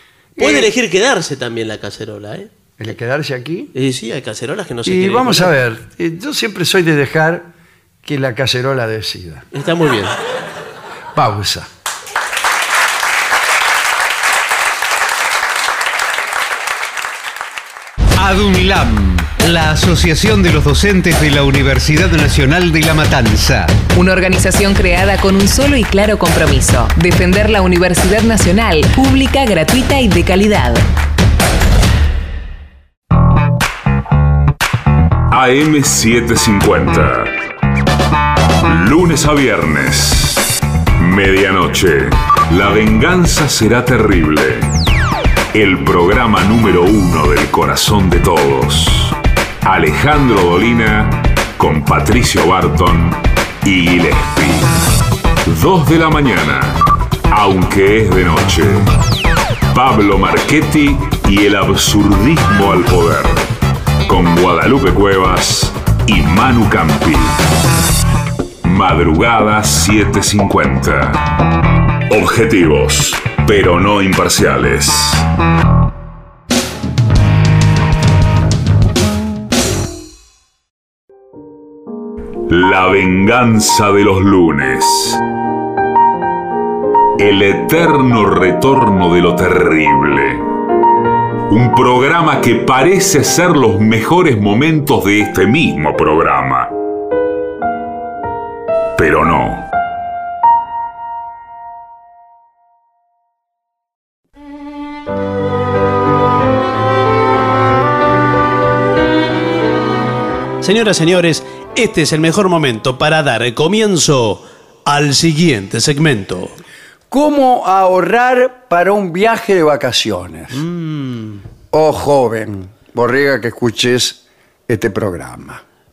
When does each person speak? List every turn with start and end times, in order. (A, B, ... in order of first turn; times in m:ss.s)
0:00.4-0:00.7 A
0:00.4-0:02.5 B
0:02.8-0:03.7 A
0:03.7-0:05.5 B
0:04.8-0:07.5 A
0:08.0-0:09.4 A
0:09.5-0:10.2 B
0:11.1-0:11.7 A
0:18.2-0:23.8 C
0:23.9-0:30.8 D
0:35.3-0:37.4 E
0:38.6-0:44.7 E
0:45.5-0:54.7 E
0:55.4-0:58.9 E
0:59.7-1:03.5 E
1:04.0-1:07.4 E
1:08.6-1:11.4 E
1:12.1-1:15.3 E
1:22.5-1:25.2 E
1:27.2-1:30.4 E
1:31.5-1:36.7 E
1:39.0-1:39.7 E
1:50.6-1:56.6 B
1:57.1-2:00.6 A
2:00.5-2:01.4 B
2:01.7-2:05.6 A